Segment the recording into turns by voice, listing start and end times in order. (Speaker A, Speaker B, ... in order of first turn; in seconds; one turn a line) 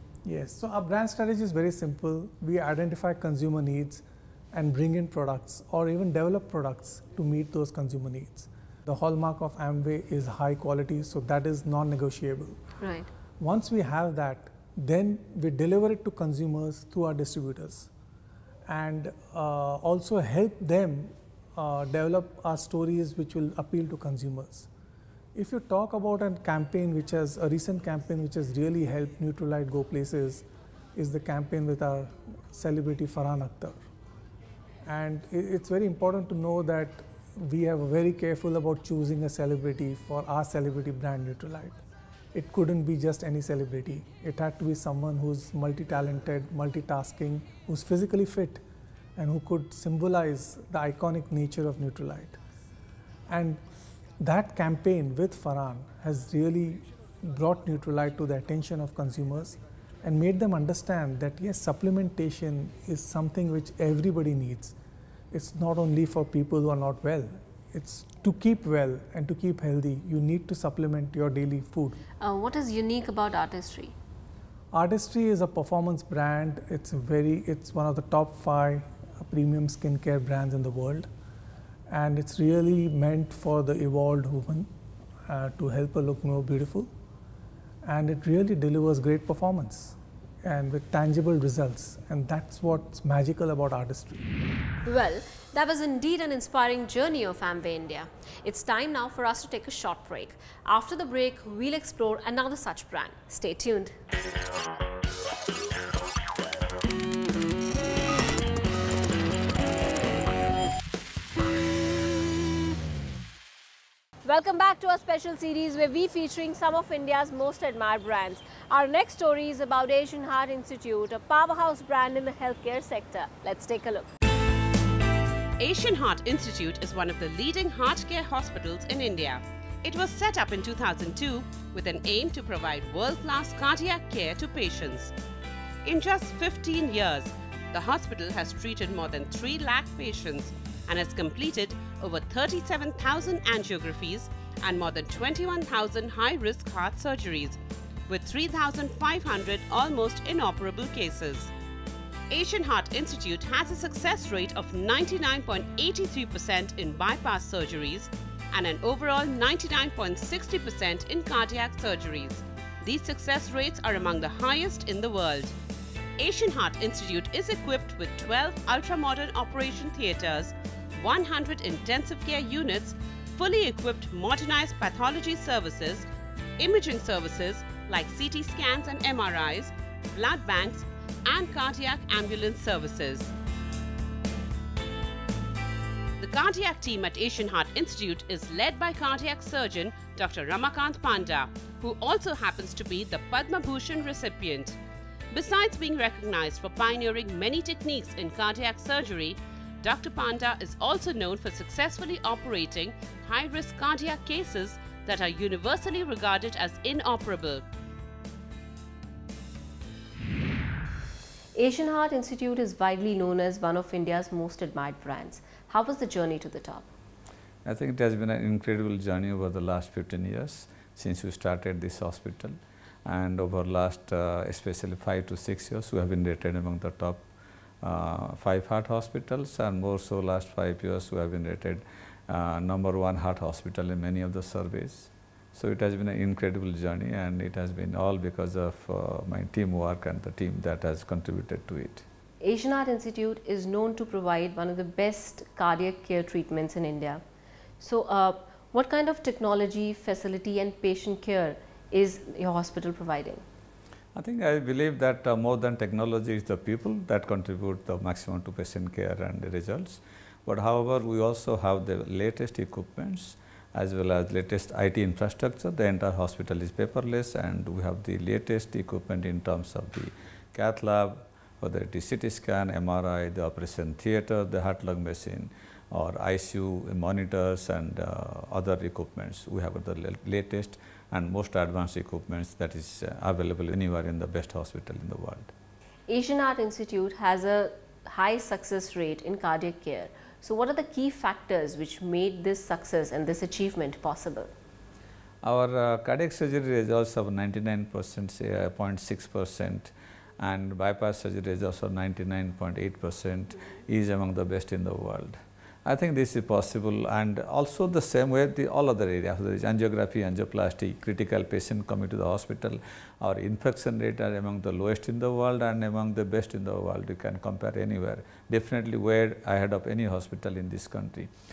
Speaker A: 0.2-12.6
Speaker B: 12.8-13.1
Speaker A: 13.4-17.9
Speaker A: 18.7-24.7
Speaker A: 25.4-33.8
Speaker A: 34.9-41.8
Speaker A: 42.3-48.6
Speaker A: 49.2-52.4
Speaker A: 53.3-53.6
Speaker A: 54.2-64.8
Speaker A: 65.3-72.0
Speaker B: 72.2-74.0
Speaker A: 74.7-81.1
Speaker A: 81.9-84.7
Speaker A: 85.3-86.9
Speaker A: 87.8-94.2
Speaker B: 94.8-103.9
Speaker B: 114.2-124.1
Speaker C: 125.6-135.1
Speaker C: 135.8-151.5
Speaker C: 152.3-165.5
Speaker C: 166.2-176.1
Speaker C: 176.6-183.3
Speaker C: 186.2-194.8
Speaker C: 195.3-207.6
Speaker B: 211.6-216.9
Speaker D: 217.7-227.2
Speaker D: 227.8-242.0
Speaker B: 242.4-247.2
Speaker B: 247.8-253.4
Speaker D: 254.2-285.5
Speaker B: 286.1-294.5
Speaker D: 295.4-321.3